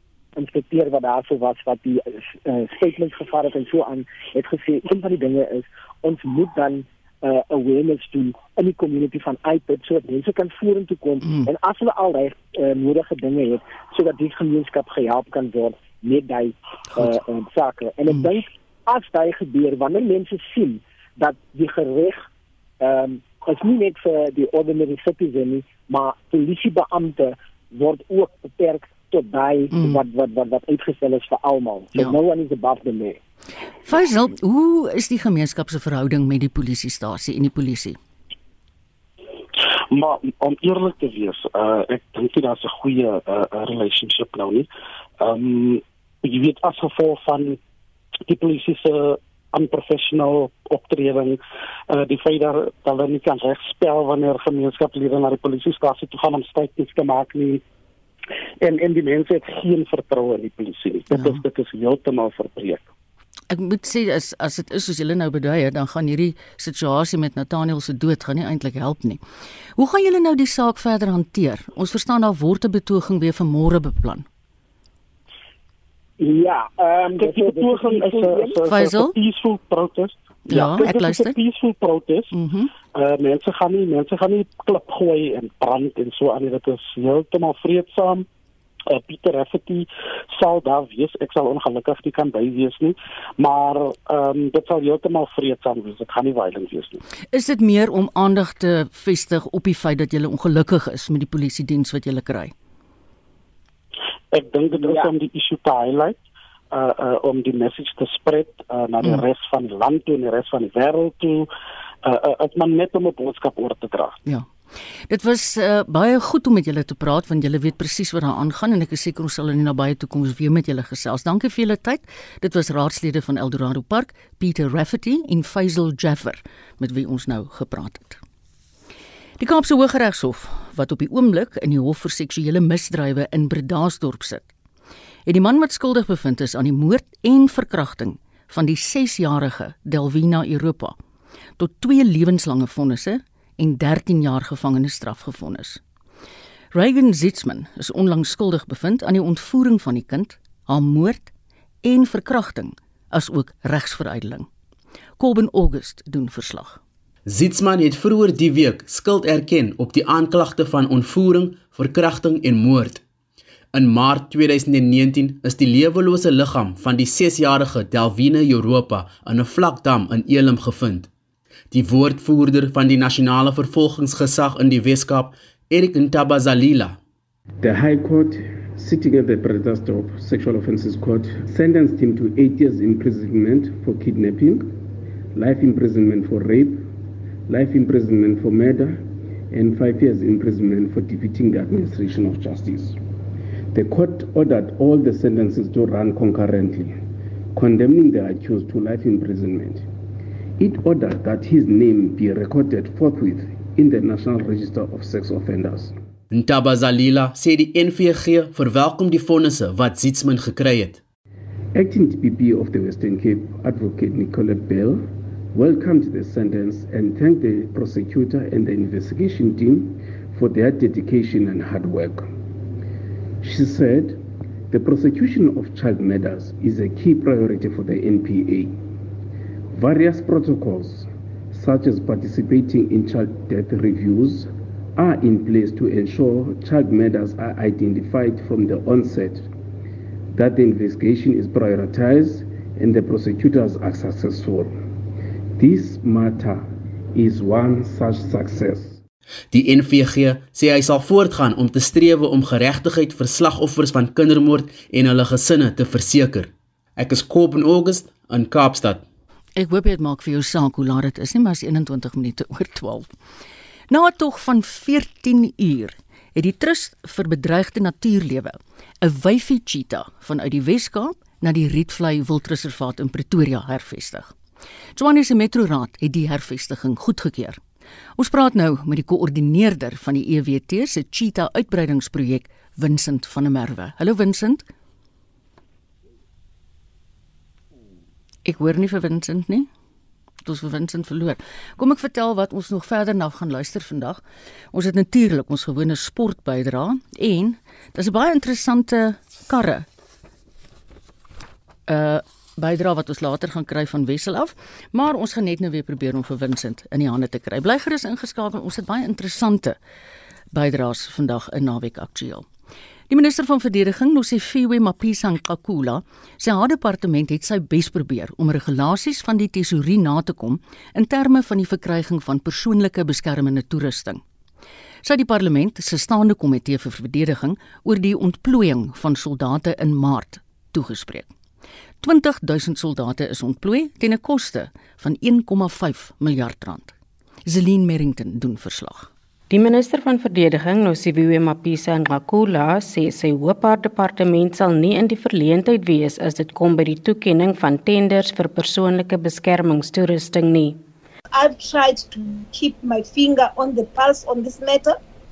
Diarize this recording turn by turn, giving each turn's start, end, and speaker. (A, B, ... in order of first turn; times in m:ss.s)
0:00.4-0:22.3 A
0:11.2-0:11.5 B
0:22.8-0:33.2 A
0:29.7-0:30.0 B
0:33.9-0:38.0 B
0:39.9-0:44.7 C
0:45.2-0:47.6 C
0:48.3-0:57.6 C
0:58.6-1:02.9 C
1:01.1-1:01.4 B
1:03.5-1:09.2 B
1:09.8-1:14.2 B
1:16.2-1:18.6 A
1:17.2-1:22.3 C
1:18.6-1:19.2 B
1:20.5-1:21.4 B
1:22.3-1:22.7 B
1:22.9-1:28.3 C
1:28.9-1:37.0 C
1:37.3-1:42.5 B
1:44.3-1:46.2 C
1:44.8-1:45.1 A
1:46.7-1:51.5 C
1:52.0-1:54.2 C
1:55.1-2:08.2 B
2:09.4-2:14.5 B
2:15.3-2:21.0 B
2:21.6-2:25.8 B
2:26.7-2:31.3 B
2:31.8-2:34.5 B
2:35.2-2:36.8 B
2:37.3-2:43.0 D
2:43.7-2:51.1 D
2:51.7-2:57.0 D
2:57.6-3:04.8 E
3:05.3-3:06.9 E
3:07.5-3:13.0 E
3:13.7-3:17.0 E
3:17.5-3:19.9 E
3:20.6-3:26.0 E
3:26.3-3:31.0 D
3:31.7-3:42.3 E
3:43.4-3:48.8 E
3:49.7-3:59.5 E
4:00.3-4:04.9 E
4:05.6-4:09.0 E
4:09.5-4:19.0 D
4:19.6-4:23.1 B
4:23.9-4:34.3 B
4:35.0-4:37.6 B
4:38.2-4:44.6 B
4:48.4-4:49.7 B
4:50.4-4:54.2 B
4:54.7-4:59.9 B
5:01.9-5:09.8 B
5:10.5-5:12.5 B
5:13.1-5:24.2 B
5:25.0-5:31.3 B
5:32.0-5:36.9 B
5:37.5-5:39.1 B
5:39.5-5:50.8 F
5:51.3-5:55.0 G